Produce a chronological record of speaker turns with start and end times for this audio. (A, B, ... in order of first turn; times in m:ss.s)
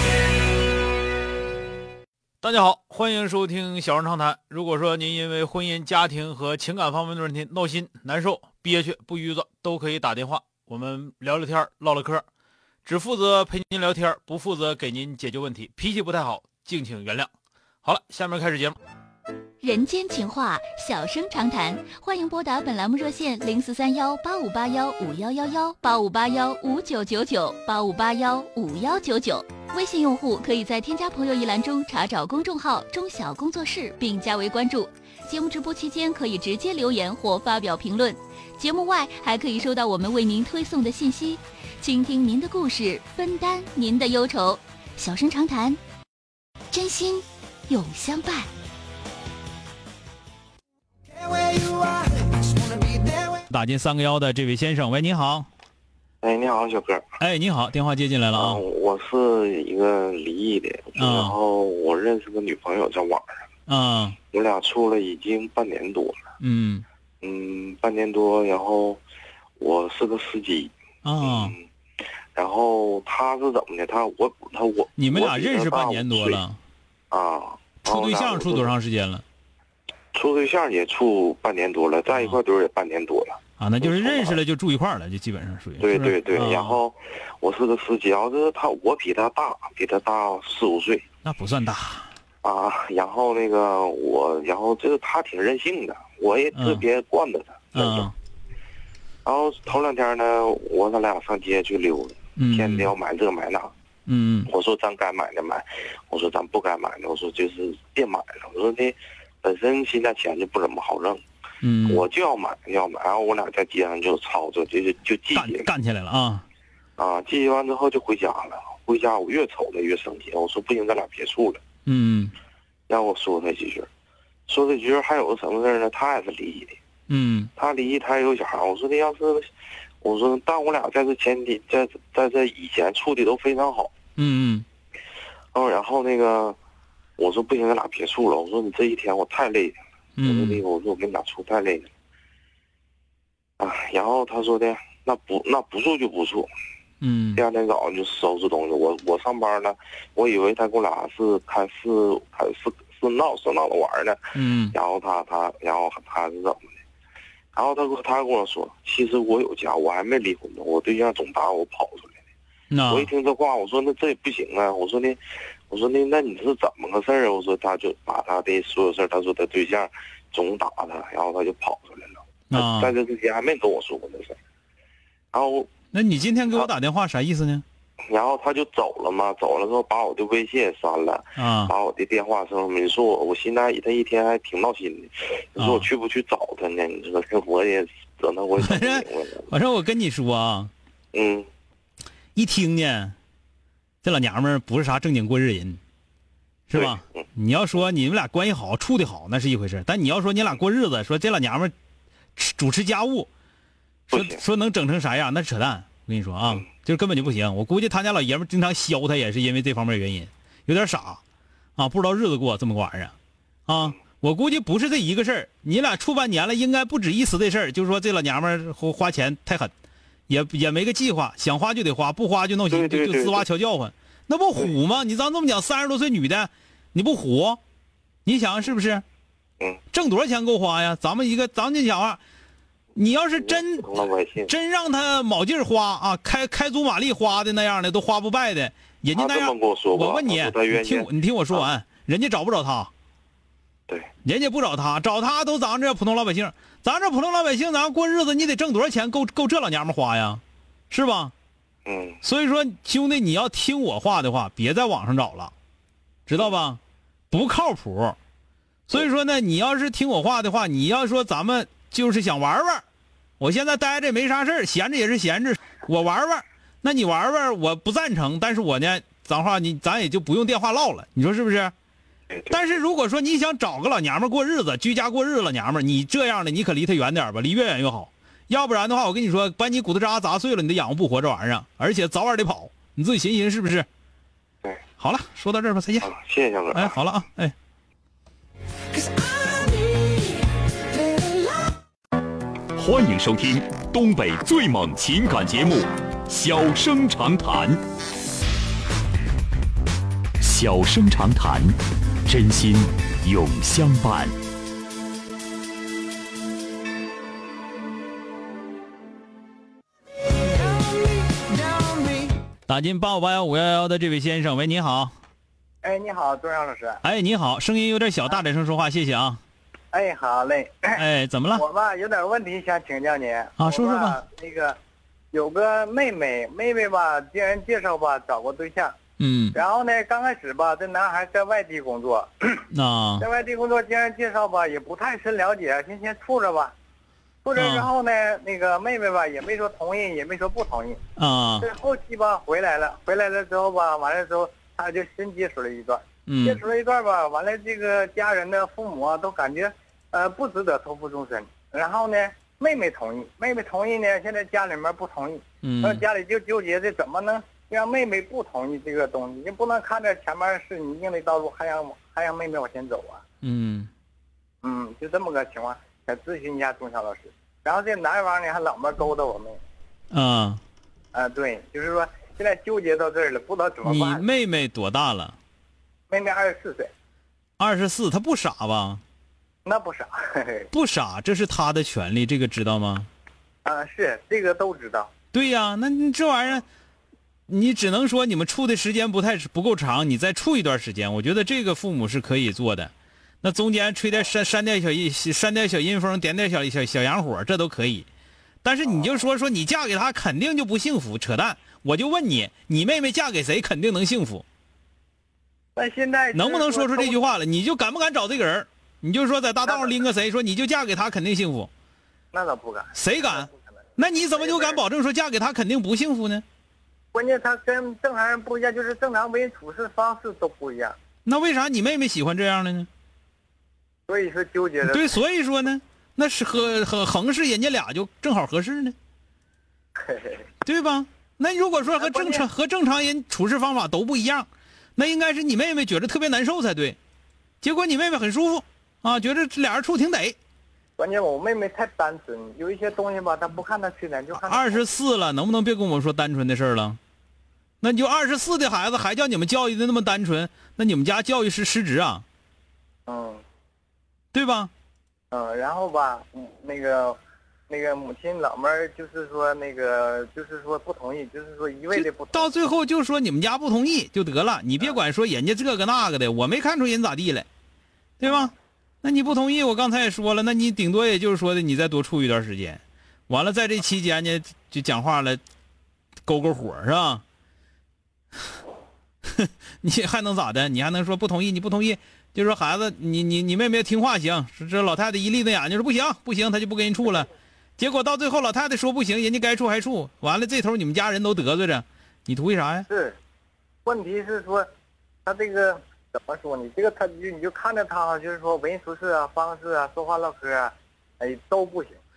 0:02.4-0:12.2 A
0:12.8-0:17.3 A
0:17.8-0:18.8 A
0:19.6-0:45.8 B
0:46.7-0:48.5 B
0:53.5-0:55.5 A
0:56.2-0:57.1 C
0:57.2-0:58.6 A
0:58.3-1:03.5 C
1:01.0-1:01.4 A
1:03.7-1:04.2 A
1:04.3-1:06.2 C
1:06.4-1:06.8 A
1:07.2-1:09.0 C
1:09.6-1:11.6 C
1:11.0-1:11.5 A
1:12.4-1:16.4 C
1:15.0-1:16.6 A
1:17.1-1:18.7 C
1:17.8-1:19.2 A
1:20.1-1:24.4 C
1:23.6-1:26.8 A
1:25.8-1:31.0 C
1:31.2-1:32.1 A
1:32.4-1:38.1 C
1:36.5-1:36.9 A
1:37.7-1:38.2 A
1:39.2-1:43.7 C
1:42.4-1:42.9 A
1:44.1-1:44.5 A
1:44.5-1:51.2 C
1:51.6-1:52.0 A
1:51.9-1:55.7 C
1:55.4-1:56.4 A
1:57.0-2:01.6 C
2:01.9-2:02.3 A
2:02.9-2:03.9 C
2:04.5-2:06.8 C
2:07.1-2:07.5 A
2:07.6-2:09.5 C
2:10.0-2:13.9 C
2:14.2-2:14.6 A
2:15.5-2:16.6 C
2:17.2-2:21.9 C
2:20.2-2:20.6 A
2:23.6-2:26.5 C
2:27.0-2:27.4 A
2:27.4-2:34.2 C
2:34.3-2:34.8 A
2:34.7-2:36.8 C
2:37.5-2:42.1 C
2:42.7-2:43.1 A
2:42.9-2:54.4 C
2:52.5-2:52.9 A
2:55.3-2:55.7 C
2:55.9-2:57.6 A
2:58.1-3:09.5 C
3:01.4-3:01.7 A
3:05.6-3:05.9 A
3:08.6-3:10.7 A
3:11.1-3:11.5 C
3:12.4-3:13.2 A
3:14.0-3:15.8 A
3:16.7-3:21.7 A
3:16.7-3:17.2 C
3:22.4-3:23.3 A
3:24.1-3:24.4 C
3:24.1-3:31.2 A
3:31.8-3:33.1 A
3:33.7-3:39.7 A
3:40.3-3:47.6 A
3:42.7-3:43.5 C
3:48.3-3:49.0 A
3:49.9-3:52.2 A
3:53.0-4:02.9 A
3:53.4-3:54.5 C
3:59.2-4:01.7 C
4:04.2-4:11.3 A
4:11.9-4:12.2 C
4:12.2-4:15.5 A
4:16.3-4:16.8 A
4:17.3-4:18.2 A
4:18.9-4:22.8 A
4:23.4-4:31.7 A
4:32.5-4:43.9 A
4:45.0-4:46.1 A
4:46.0-4:47.0 C
4:46.7-4:47.5 A
4:52.8-4:57.8 D
5:00.4-5:04.4 D
5:12.7-5:15.1 A
5:15.8-5:17.0 E
5:17.0-5:19.4 A
5:19.9-5:24.8 E
5:21.0-5:21.6 A
5:23.6-5:24.2 A
5:25.3-5:29.0 E
5:29.2-5:29.6 A
5:29.5-5:32.6 E
5:32.7-5:33.2 A
5:33.2-5:36.7 E
5:37.4-5:41.0 E
5:37.6-5:37.9 A
5:41.2-5:41.7 A
5:41.6-6:03.2 E
5:46.3-5:46.6 A
5:55.6-5:56.0 A
6:03.4-6:03.9 A
6:04.6-6:09.6 E
6:10.1-6:10.6 A
6:11.1-6:14.2 E
6:13.8-6:15.4 A
6:16.1-6:16.9 E
6:17.6-6:19.0 A
6:19.6-6:20.7 E
6:20.7-6:23.1 A
6:23.6-6:25.1 E
6:25.3-6:26.7 A
6:27.5-6:38.1 A
6:38.6-6:44.4 A
6:45.8-6:47.2 E
6:46.3-6:51.7 A
6:49.6-6:50.0 E
6:52.3-6:54.8 E
6:52.9-6:56.4 A
6:57.1-7:01.0 E
7:01.2-7:02.9 A
7:04.1-7:05.2 E
7:04.8-7:09.0 A
7:10.0-7:10.5 E
7:10.6-7:17.0 A
7:11.9-7:12.5 E
7:17.6-7:20.4 A
7:21.0-7:24.9 E
7:24.4-7:27.0 A
7:27.8-7:32.2 A
7:33.1-7:33.4 E
7:34.3-7:34.7 A
7:35.3-7:37.2 E
7:37.7-7:42.5 E
7:41.9-7:47.5 A
7:48.2-7:55.4 A
7:48.2-7:48.5 E
7:56.3-7:57.2 A
7:59.4-8:12.9 A
8:12.9-8:13.2 E
8:13.8-8:14.7 E
8:15.3-8:22.0 E